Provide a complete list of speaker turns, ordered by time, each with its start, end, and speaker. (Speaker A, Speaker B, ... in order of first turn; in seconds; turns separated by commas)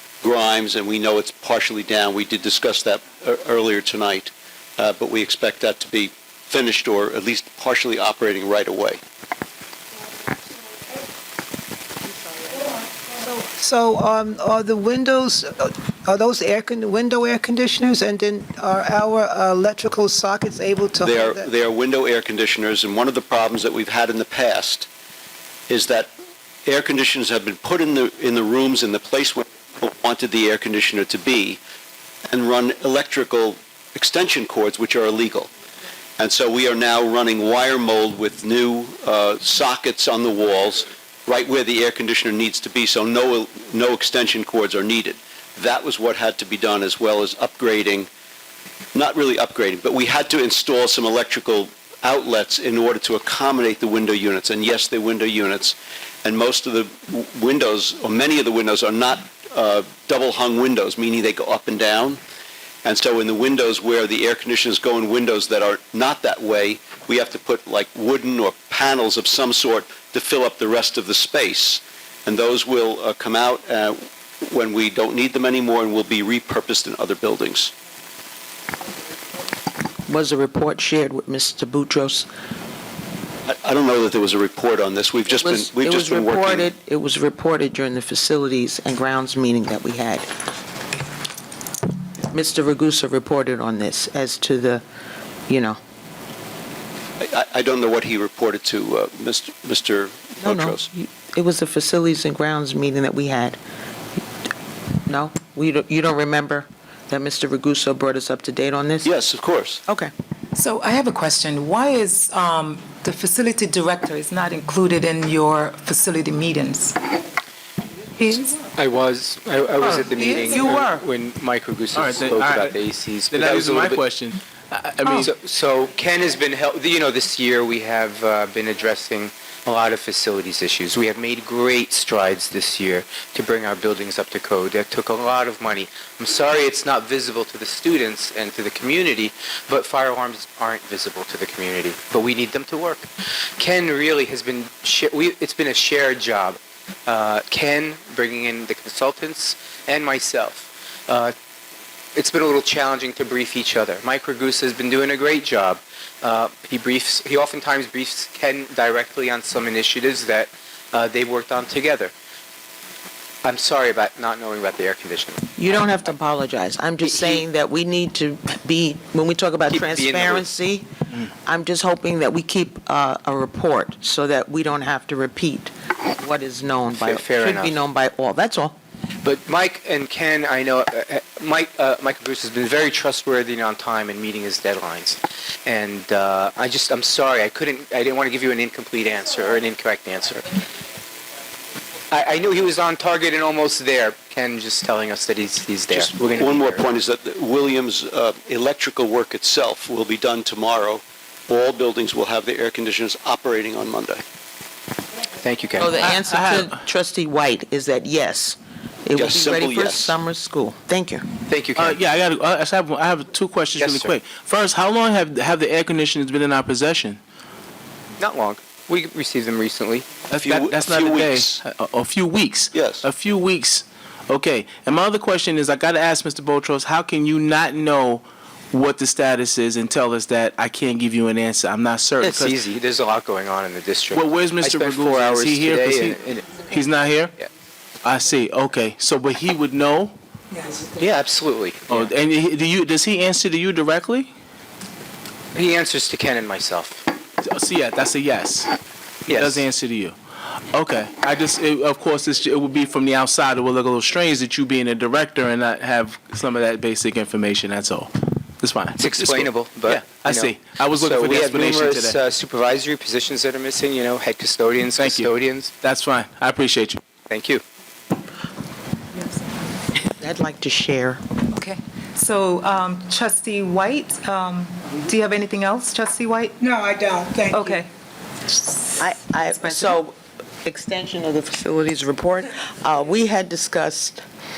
Speaker A: 0.2-9.0, Speaker B: 13.2-21.5, Speaker A: 21.0-24.9, Speaker A: 25.7-26.1, Speaker A: 26.6-31.6, Speaker A: 32.3-35.5, Speaker A: 36.2-48.1, Speaker A: 48.9-62.2, Speaker A: 62.8-77.7, Speaker C: 80.1-82.3, Speaker A: 83.5-86.7, Speaker C: 85.3-90.3, Speaker C: 92.3-94.8, Speaker C: 95.5-95.8, Speaker A: 97.2-100.8, Speaker C: 100.4-103.6, Speaker C: 105.1-109.1, Speaker A: 109.0-109.8, Speaker D: 110.5-117.0, Speaker D: 118.2-118.5, Speaker E: 118.5-124.0, Speaker D: 119.8-121.0, Speaker F: 121.9-122.8, Speaker F: 123.3-125.3, Speaker E: 125.1-151.3, Speaker E: 152.1-162.1, Speaker E: 163.4-165.6, Speaker C: 165.6-178.8, Speaker E: 167.0-167.4, Speaker E: 169.7-170.5, Speaker E: 176.9-177.8, Speaker E: 179.2-190.5, Speaker E: 192.1-196.9, Speaker A: 195.9-204.2, Speaker E: 205.4-206.0, Speaker C: 205.8-211.2, Speaker F: 206.0-206.7, Speaker A: 209.1-210.2, Speaker E: 211.5-212.0, Speaker F: 211.8-217.2, Speaker E: 213.8-214.2, Speaker E: 218.2-220.1, Speaker F: 220.3-232.5, Speaker A: 220.3-221.6, Speaker A: 222.7-223.1, Speaker E: 232.2-236.7, Speaker F: 234.1-236.2, Speaker F: 236.7-237.3, Speaker F: 238.0-240.1, Speaker E: 240.7-242.1, Speaker F: 241.9-244.3, Speaker E: 245.5-247.0, Speaker F: 247.4-248.7, Speaker E: 249.3-249.7, Speaker F: 249.3-250.2, Speaker F: 250.7-262.2, Speaker E: 259.0-265.7, Speaker F: 265.0-267.0, Speaker E: 267.3-267.6, Speaker C: 270.0-271.2, Speaker D: 271.5-277.9, Speaker C: 279.0-284.2, Speaker D: 279.5-280.0